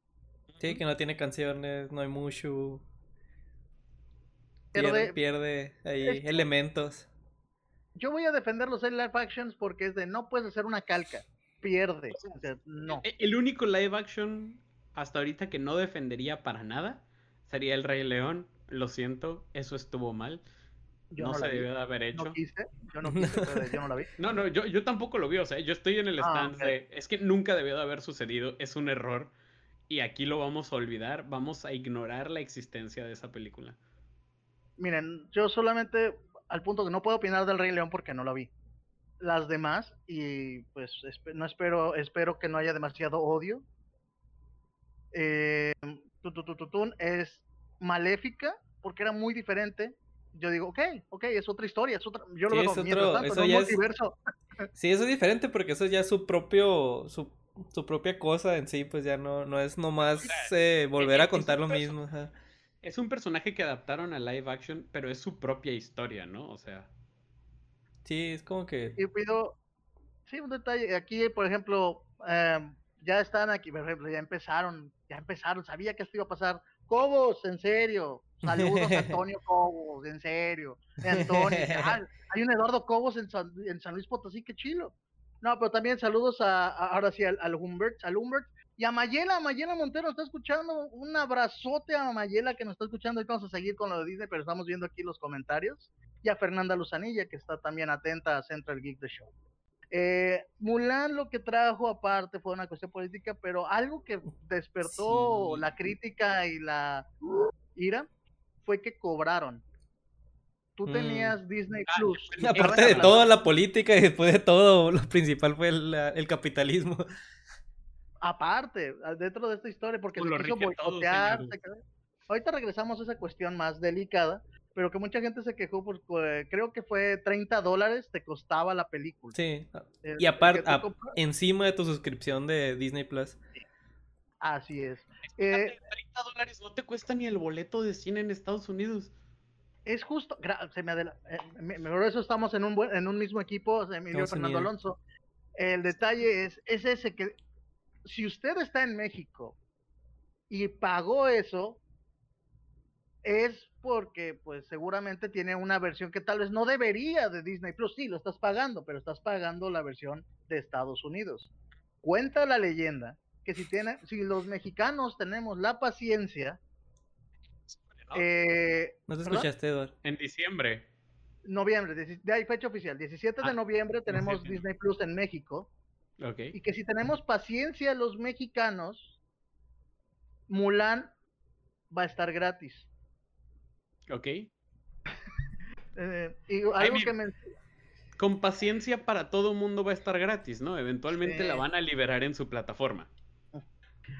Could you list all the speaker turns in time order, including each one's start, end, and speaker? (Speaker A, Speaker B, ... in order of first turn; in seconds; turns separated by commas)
Speaker A: 0.5-0.8, Speaker B: 0.6-2.8, Speaker C: 4.7-5.2, Speaker B: 4.8-7.1, Speaker C: 6.0-6.5, Speaker C: 8.0-13.0, Speaker A: 12.1-20.4, Speaker C: 21.1-24.1, Speaker A: 21.2-22.4, Speaker B: 23.1-23.7, Speaker A: 24.2-29.3, Speaker C: 26.2-26.8, Speaker A: 29.9-33.8, Speaker C: 34.8-38.5, Speaker C: 39.2-43.6, Speaker C: 45.1-54.7, Speaker B: 52.5-53.8, Speaker B: 54.8-62.3, Speaker A: 60.1-62.0, Speaker A: 62.8-66.9, Speaker B: 68.0-69.0, Speaker C: 69.0-69.6, Speaker C: 70.3-99.3, Speaker B: 78.5-79.2, Speaker B: 81.2-82.0, Speaker C: 99.9-107.1, Speaker B: 104.8-105.7, Speaker C: 107.8-108.1, Speaker C: 108.6-109.6, Speaker C: 110.8-113.3, Speaker B: 110.9-111.4, Speaker A: 111.9-113.3, Speaker B: 112.4-117.0, Speaker C: 118.2-129.4, Speaker A: 120.2-121.5, Speaker B: 129.3-133.4, Speaker C: 130.0-131.2, Speaker C: 134.4-135.7, Speaker A: 135.3-139.1, Speaker C: 139.9-145.0, Speaker B: 144.1-144.7, Speaker C: 145.6-147.4, Speaker C: 148.1-149.6, Speaker C: 150.5-151.8, Speaker C: 153.2-161.5, Speaker C: 162.0-166.6, Speaker A: 167.7-168.2, Speaker C: 168.1-169.5, Speaker B: 169.1-169.9, Speaker A: 170.0-170.9, Speaker C: 171.4-175.7, Speaker A: 174.1-174.6, Speaker A: 176.2-176.6, Speaker C: 176.5-179.1, Speaker C: 180.5-181.1, Speaker C: 181.9-182.9, Speaker A: 184.1-184.5, Speaker C: 185.9-187.4, Speaker A: 186.8-187.1, Speaker A: 188.2-193.1, Speaker C: 191.1-191.7